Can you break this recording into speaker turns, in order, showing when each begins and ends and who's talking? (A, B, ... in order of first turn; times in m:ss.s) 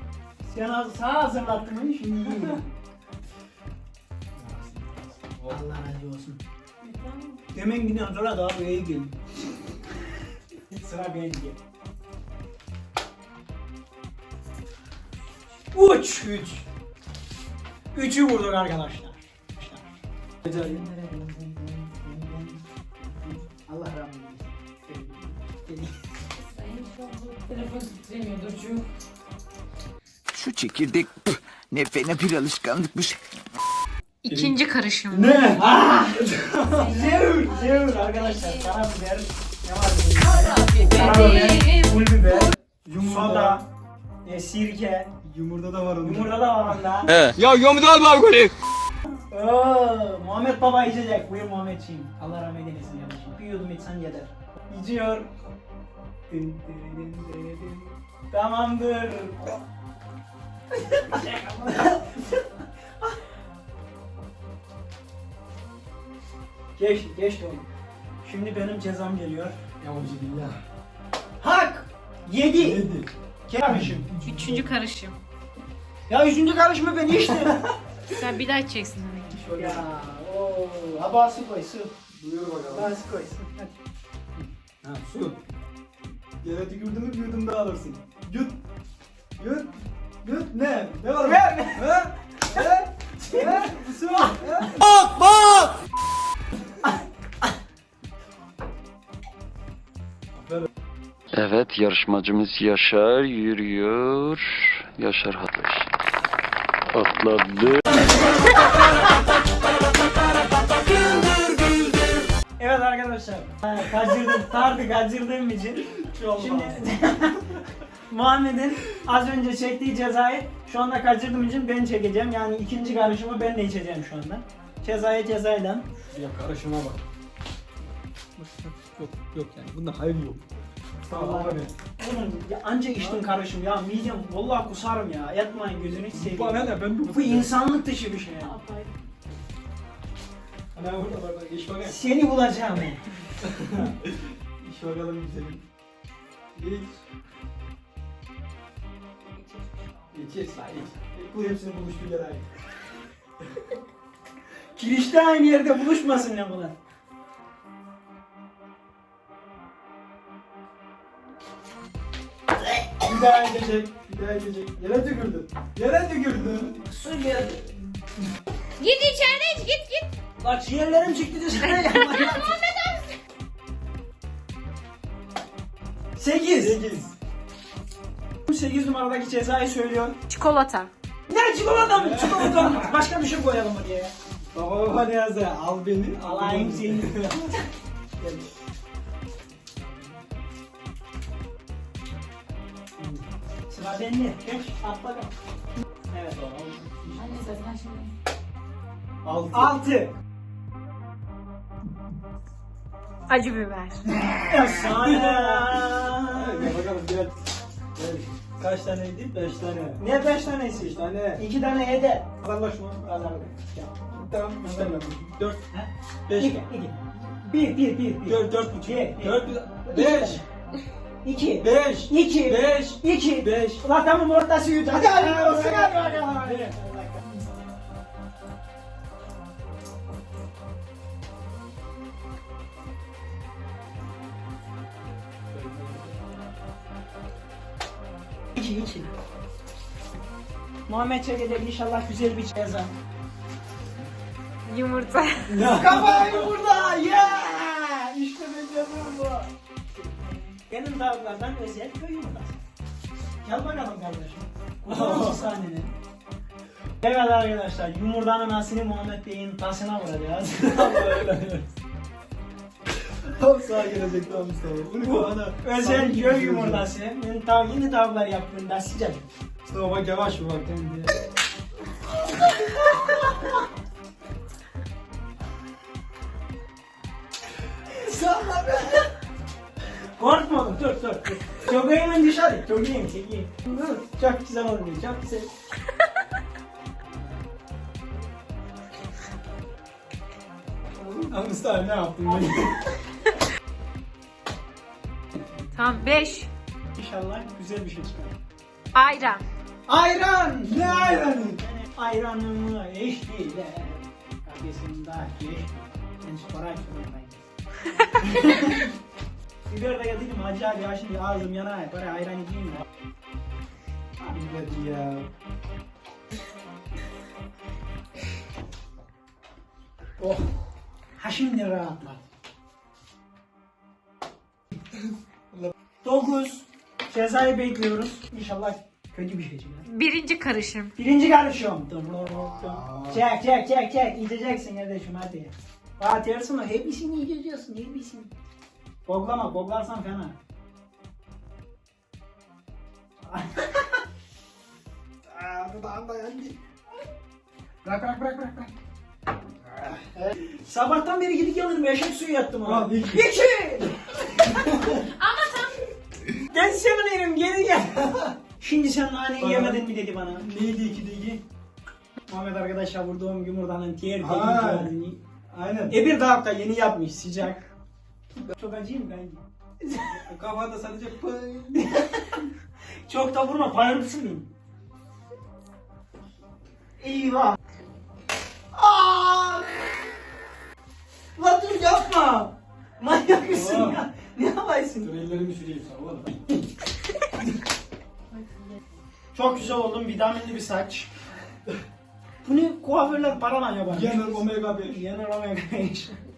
0:00.4-0:02.6 A
0:02.2-0:02.6 B
0:04.3-0:05.6 B
0:05.5-0:06.4 A
0:06.8-0:07.4 C
0:07.5-0:09.2 A
0:10.7-0:11.6 A
0:15.7-0:16.6 A
0:17.9-0:19.9 A
0:20.4-0:20.8 B
0:20.8-0:21.5 C
0:21.6-0:22.6 A
0:23.1-0:25.9 A
0:26.4-0:28.8 C
0:30.3-0:33.2 D
0:34.2-0:35.6 C
0:34.3-0:34.5 B
0:35.1-0:35.6 B
0:35.5-0:43.6 A
0:37.0-0:38.1 C
0:40.7-0:41.9 C
0:42.8-0:43.6 B
0:44.2-0:45.1 A
0:45.2-0:46.3 B
0:46.0-0:47.2 A
0:47.1-0:48.5 B
0:49.3-0:55.3 A
0:56.3-0:59.6 A
1:00.7-1:02.4 A
1:06.8-1:07.7 A
1:08.2-1:09.6 A
1:09.8-1:10.6 B
1:11.4-1:12.8 A
1:12.6-1:13.1 B
1:13.5-1:14.1 A
1:13.6-1:14.7 B
1:14.2-1:15.2 C
1:16.1-1:17.6 A
1:17.3-1:17.6 B
1:18.1-1:19.4 C
1:19.3-1:19.8 B
1:19.5-1:21.9 A
1:22.1-1:22.9 B
1:22.7-1:23.7 A
1:24.8-1:25.4 B
1:26.4-1:28.6 B
1:29.4-1:35.8 B
1:31.2-1:31.8 A
1:33.3-1:33.6 A
1:40.3-1:40.7 B
1:41.3-1:45.9 E
1:46.9-1:48.3 E
1:52.6-1:57.4 A
1:56.0-1:56.9 B
1:58.1-2:05.9 A
2:06.1-2:07.0 B
2:08.4-2:10.4 B
2:11.1-2:11.7 B
2:11.1-2:18.6 A
2:16.0-2:17.5 B
2:18.4-2:18.9 C
2:20.7-2:22.0 B
2:21.8-2:23.0 A
2:23.4-2:25.6 B
2:26.6-2:27.0 B
2:30.1-2:32.4 B
2:34.8-2:36.8 A
2:43.0-2:46.8 B
2:46.9-2:47.6 A
2:48.8-2:50.0 C
2:50.4-2:52.6 A
2:51.7-2:53.0 C
2:56.2-2:56.8 A
2:56.5-2:57.1 B
2:58.4-3:00.2 A
3:00.3-3:00.9 C
3:01.3-3:04.1 A
3:01.9-3:03.0 B
3:04.5-3:07.4 B
3:06.2-3:07.6 A
3:09.8-3:10.2 B
3:13.0-3:15.3 A
3:16.1-3:17.4 A
3:17.2-3:18.1 C
3:19.2-3:19.7 B
3:19.5-3:20.2 A
3:23.3-3:24.0 C
3:24.4-3:26.7 A
3:24.7-3:27.4 B
3:27.9-3:30.0 B
3:30.0-3:32.4 A
3:30.8-3:31.4 B
3:32.4-3:33.4 B
3:33.0-3:34.0 A
3:34.1-3:35.6 B
3:34.6-3:40.4 A
3:36.3-3:36.6 B
3:38.2-3:40.4 B
3:41.2-3:47.4 A
3:41.6-3:43.8 B
3:44.9-3:46.7 B
3:55.5-3:56.4 B
3:58.6-3:59.1 A
4:00.9-4:02.9 A
4:04.6-4:05.6 C
4:05.5-4:06.5 B
4:05.6-4:12.6 A
4:13.4-4:15.9 A
4:14.9-4:15.5 B
4:17.0-4:21.5 A
4:20.6-4:21.6 B
4:23.2-4:26.9 B
4:25.0-4:29.3 A
4:29.7-4:31.1 B
4:32.9-4:33.5 A
4:38.0-4:39.0 B
4:40.2-4:45.5 A
4:51.0-4:52.8 B
4:55.7-4:56.5 C
4:57.0-4:58.4 A
4:58.9-4:59.4 C
4:59.9-5:07.4 A
5:00.7-5:01.6 B
5:08.1-5:08.9 A
5:09.6-5:12.8 A
5:14.2-5:15.3 B
5:20.2-5:20.5 A
5:21.2-5:22.2 A
5:26.0-5:29.8 A
5:29.8-5:30.9 C
5:31.0-5:38.3 A
5:32.6-5:33.2 B
5:39.0-5:40.4 A
5:43.3-5:43.8 A
5:45.2-5:46.5 B
5:47.8-5:48.7 B
5:49.8-5:50.3 B
5:50.5-5:55.0 A
5:52.6-5:53.3 B
5:54.5-5:54.8 B
5:55.2-5:55.7 C
5:56.4-6:00.5 A
5:59.4-6:01.4 B
6:02.3-6:05.2 A
6:04.2-6:04.9 B
6:05.5-6:06.0 B
6:05.9-6:07.6 A
6:08.4-6:10.2 A
6:10.1-6:11.8 B
6:11.8-6:12.4 A
6:13.1-6:14.5 A
6:17.0-6:17.6 A
6:18.7-6:19.7 A
6:21.4-6:25.1 A
6:23.5-6:24.0 B
6:25.0-6:26.4 B
6:29.3-6:31.1 A
6:32.4-6:36.2 A
6:33.8-6:35.0 B